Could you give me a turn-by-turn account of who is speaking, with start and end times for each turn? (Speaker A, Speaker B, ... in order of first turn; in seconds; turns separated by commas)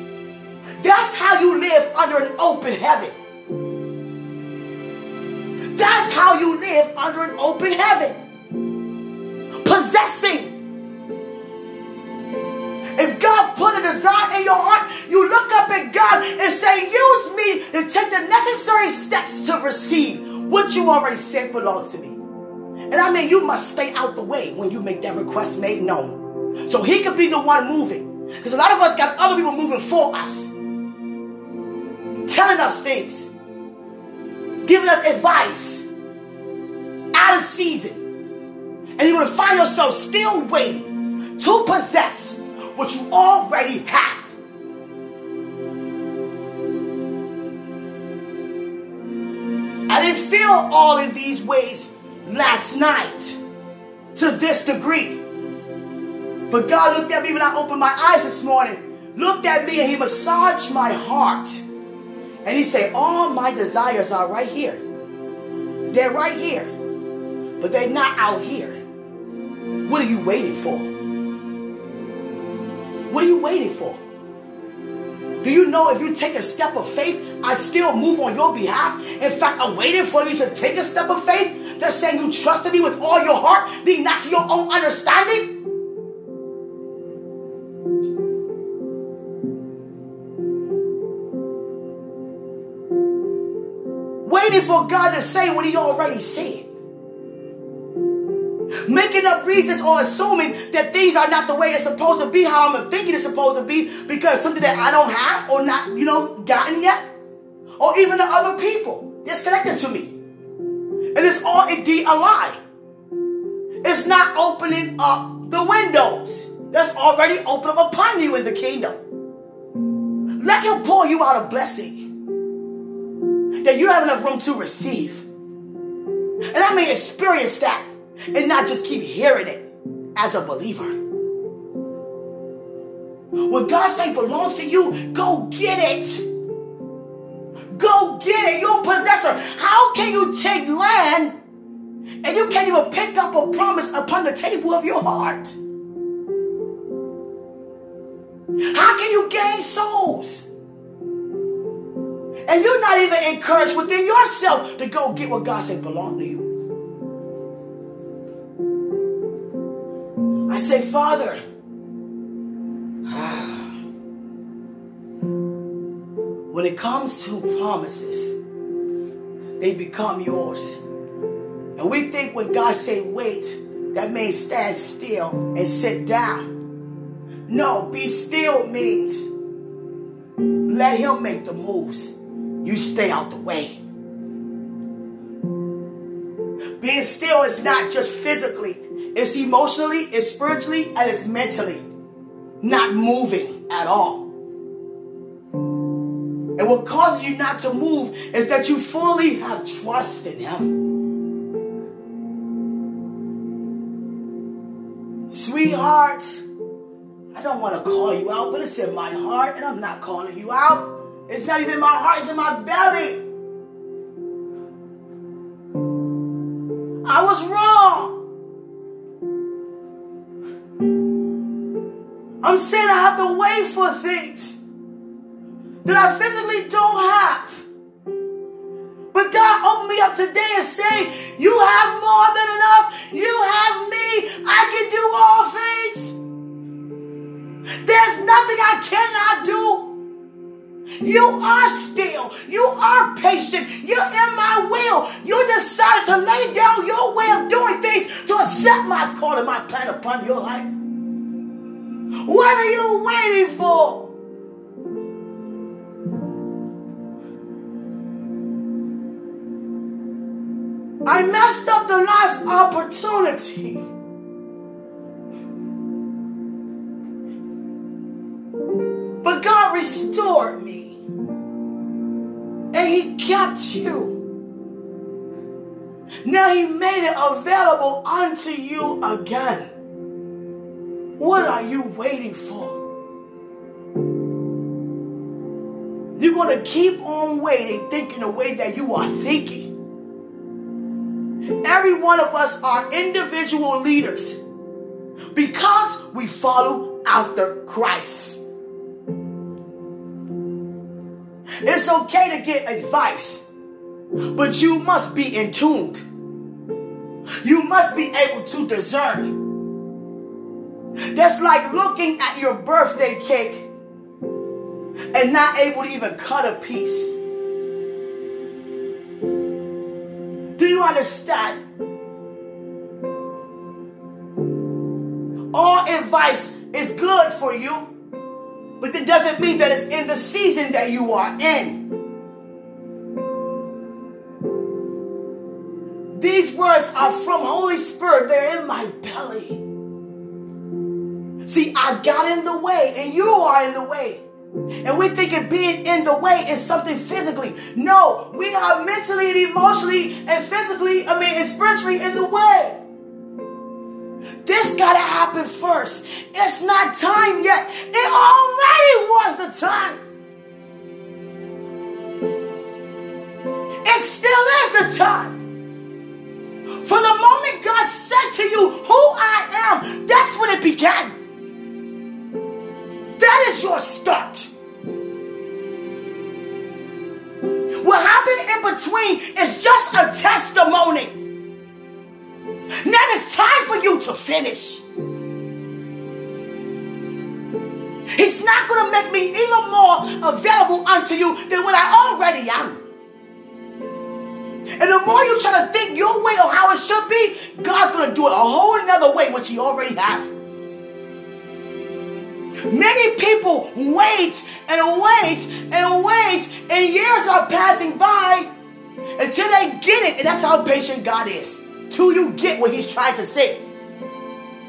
Speaker A: 0.8-3.1, Speaker A: 5.7-8.2, Speaker A: 9.6-10.6, Speaker A: 12.9-22.2, Speaker A: 22.9-30.5, Speaker A: 32.2-33.3, Speaker A: 34.6-35.9, Speaker A: 37.1-38.0, Speaker A: 39.0-44.4, Speaker A: 49.9-53.4, Speaker A: 54.1-55.2, Speaker A: 56.5-61.6, Speaker A: 62.4-64.8, Speaker A: 65.9-66.7, Speaker A: 67.6-68.8, Speaker A: 69.8-70.9, Speaker A: 73.1-74.0, Speaker A: 75.4-85.5, Speaker A: 94.2-96.7, Speaker A: 98.8-107.1, Speaker A: 107.8-110.1, Speaker A: 111.1-112.6, Speaker A: 113.8-119.0, Speaker A: 120.4-122.1, Speaker A: 123.6-125.2, Speaker A: 126.5-131.0, Speaker A: 133.4-136.2, Speaker A: 137.7-141.3, Speaker A: 142.2-145.6, Speaker A: 148.7-150.5, Speaker A: 152.5-156.5, Speaker A: 160.5-161.4, Speaker A: 163.1-163.8, Speaker A: 166.5-168.3, Speaker A: 169.6-170.8, Speaker A: 171.8-176.5, Speaker A: 177.5-179.3, Speaker A: 180.7-183.8, Speaker A: 186.8-191.8, Speaker A: 192.6-194.3, Speaker A: 196.6-200.8, Speaker A: 205.3-206.4, Speaker A: 207.3-213.2, Speaker A: 217.0-218.2, Speaker A: 222.4-224.6, Speaker A: 225.8-227.7, Speaker A: 229.1-236.2, Speaker A: 237.8-239.9, Speaker A: 241.0-250.7, Speaker A: 252.2-254.1, Speaker A: 261.0-263.9, Speaker A: 269.2-271.0, Speaker A: 272.7-274.2, Speaker A: 276.2-279.7, Speaker A: 281.2-282.8, Speaker A: 286.2-289.7, Speaker A: 291.6-294.4, Speaker A: 295.3-298.4, Speaker A: 301.6-303.4, Speaker A: 304.3-306.0, Speaker A: 307.4-309.4, Speaker A: 311.1-313.7, Speaker A: 315.1-317.1, Speaker A: 320.6-321.6, Speaker A: 325.5-327.9, Speaker A: 328.8-331.8, Speaker A: 336.1-339.6, Speaker A: 341.4-344.2, Speaker A: 344.8-352.8, Speaker A: 354.4-360.0, Speaker A: 363.8-365.4, Speaker A: 366.8-371.1, Speaker A: 373.2-374.5, Speaker A: 377.7-381.2, Speaker A: 382.8-384.8, Speaker A: 388.1-392.8, Speaker A: 394.8-400.3, Speaker A: 402.7-408.5, Speaker A: 409.1-413.6